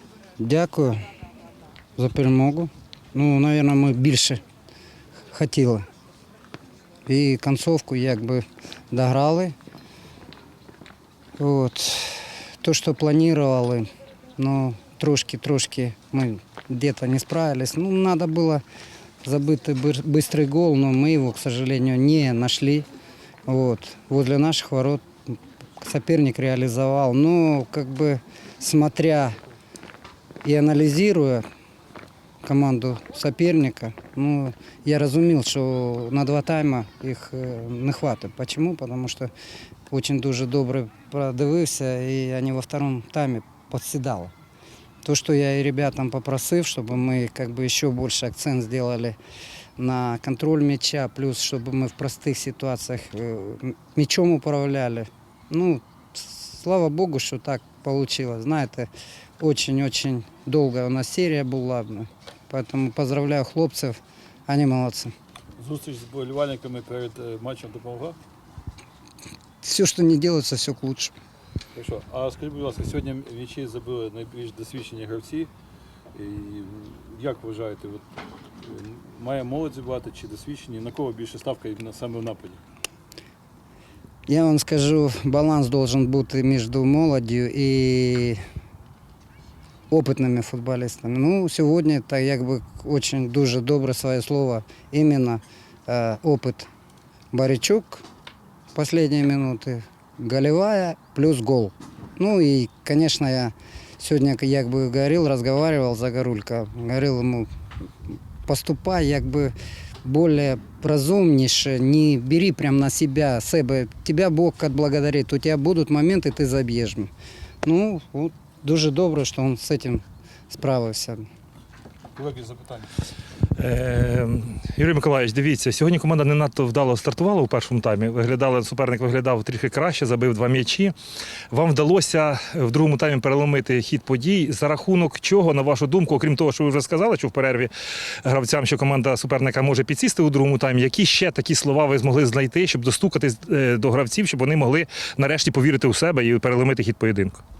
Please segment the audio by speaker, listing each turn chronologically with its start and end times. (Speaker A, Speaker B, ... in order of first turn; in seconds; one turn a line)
Speaker A: 0.4-1.0
Speaker A: 1.9-4.4
Speaker A: 5.3-5.8
Speaker A: 7.0-9.5
Speaker A: 11.4-18.6
Speaker A: 19.2-22.9
Speaker A: 23.4-25.0
Speaker A: 25.8-29.4
Speaker A: 30.4-31.4
Speaker A: 32.4-39.3
Speaker A: 39.9-44.3
Speaker A: 45.0-49.2
Speaker A: 49.8-65.1
Speaker B: 65.6-68.2
Speaker A: 69.6-71.1
Speaker B: 71.7-75.5
Speaker B: 76.1-78.0
Speaker B: 78.6-82.6
Speaker A: 84.3-88.4
Speaker A: 89.9-96.7
Speaker A: 97.3-98.0
Speaker A: 98.7-107.5
Speaker A: 108.5-117.1
Speaker A: 117.6-121.3
Speaker B: 122.2-122.9
Speaker C: 123.6-130.9
Speaker C: 131.5-137.7
Speaker C: 138.2-147.4